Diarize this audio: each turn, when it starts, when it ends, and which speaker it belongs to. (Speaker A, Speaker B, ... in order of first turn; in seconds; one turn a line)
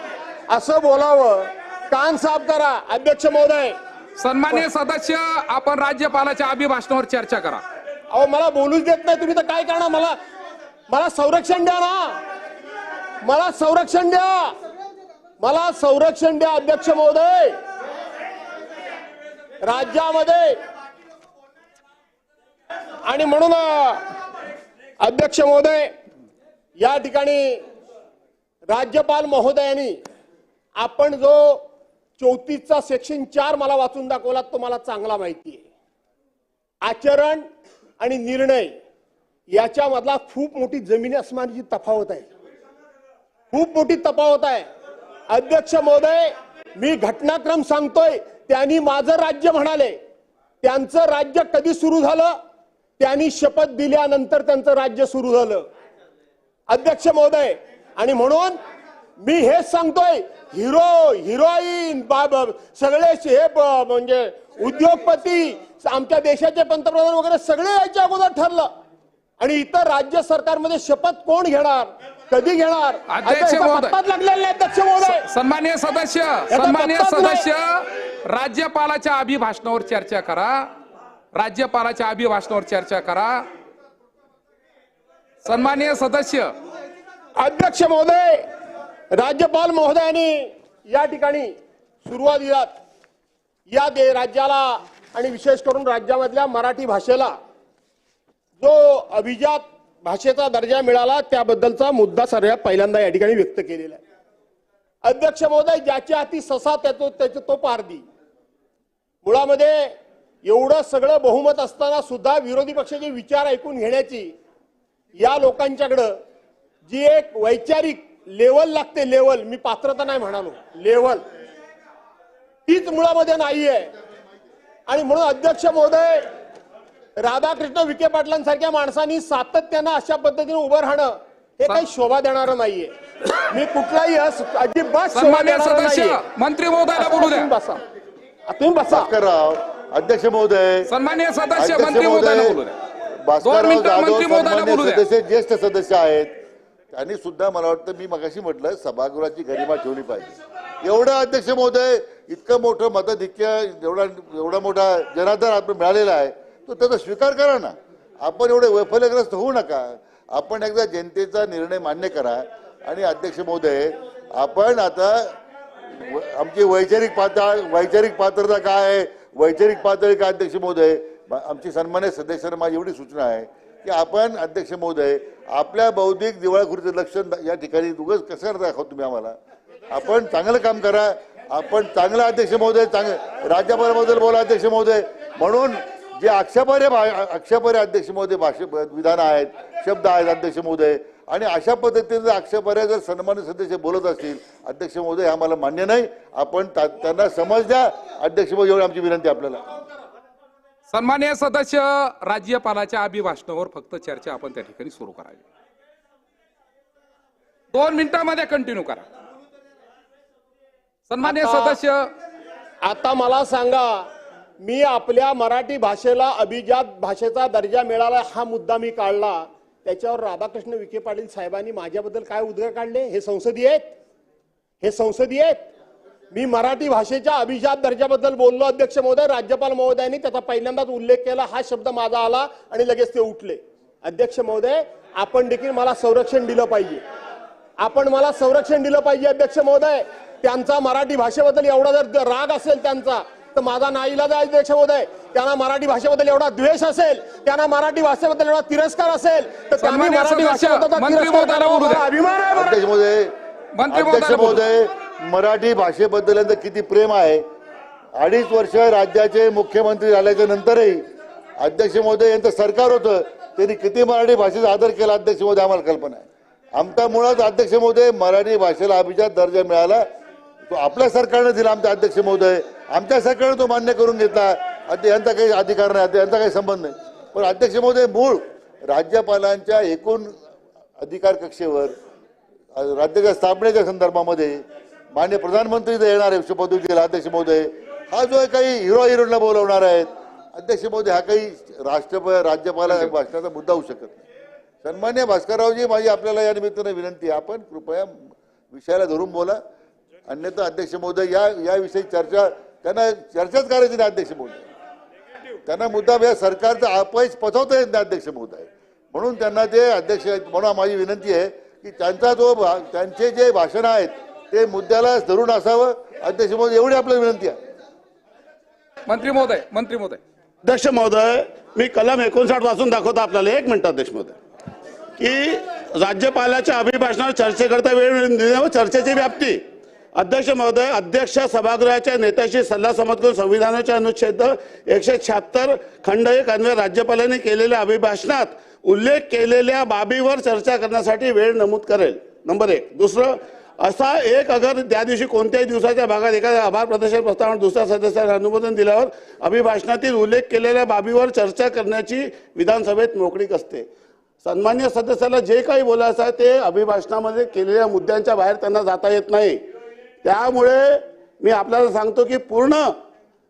Speaker A: 0.5-3.8
Speaker B: 4.2-7.6
Speaker A: 8.1-10.2
Speaker A: 10.9-12.2
Speaker A: 13.2-14.5
Speaker A: 15.4-17.6
Speaker A: 19.6-20.6
Speaker A: 23.0-24.0
Speaker A: 25.0-25.9
Speaker A: 26.8-27.6
Speaker A: 28.7-30.0
Speaker A: 30.8-31.6
Speaker A: 32.2-35.6
Speaker A: 36.8-37.5
Speaker A: 38.0-38.7
Speaker A: 39.5-42.3
Speaker A: 43.5-44.7
Speaker A: 45.3-50.0
Speaker A: 50.6-52.3
Speaker A: 53.0-55.7
Speaker A: 56.7-58.6
Speaker A: 59.2-68.7
Speaker A: 69.4-75.2
Speaker B: 73.1-74.0
Speaker B: 75.0-80.7
Speaker A: 76.5-77.4
Speaker B: 81.3-83.4
Speaker B: 85.4-86.5
Speaker A: 87.3-88.5
Speaker A: 89.1-91.5
Speaker A: 92.0-92.7
Speaker A: 93.7-97.3
Speaker A: 98.6-104.0
Speaker A: 105.0-108.0
Speaker A: 109.2-114.3
Speaker A: 115.2-116.1
Speaker A: 116.9-121.2
Speaker A: 122.7-123.9
Speaker A: 124.9-126.2
Speaker A: 127.2-136.2
Speaker B: 135.1-137.5
Speaker A: 136.9-137.8
Speaker A: 138.5-139.1
Speaker C: 138.9-140.9
Speaker B: 140.9-142.8
Speaker C: 141.6-146.3
Speaker B: 143.4-145.0
Speaker C: 146.9-165.3
Speaker C: 165.9-179.4
Speaker C: 179.9-199.8
Speaker B: 200.9-205.4
Speaker B: 207.7-209.0
Speaker B: 211.1-212.1
Speaker A: 211.2-211.8
Speaker A: 212.8-214.1
Speaker A: 214.6-223.9
Speaker A: 224.8-225.6
Speaker A: 226.3-237.0
Speaker A: 237.8-252.8
Speaker B: 249.8-252.0
Speaker C: 252.5-253.3
Speaker B: 253.7-254.7
Speaker C: 253.9-257.4
Speaker C: 258.2-261.1
Speaker C: 261.6-270.0
Speaker C: 270.7-280.4
Speaker C: 281.0-281.9
Speaker C: 282.7-284.6
Speaker C: 285.1-294.2
Speaker C: 294.8-299.6
Speaker C: 300.3-304.6
Speaker C: 305.6-317.6
Speaker B: 319.1-320.2
Speaker D: 320.6-324.4
Speaker D: 325.2-329.6
Speaker D: 330.1-353.9
Speaker D: 354.4-359.6
Speaker D: 360.2-362.9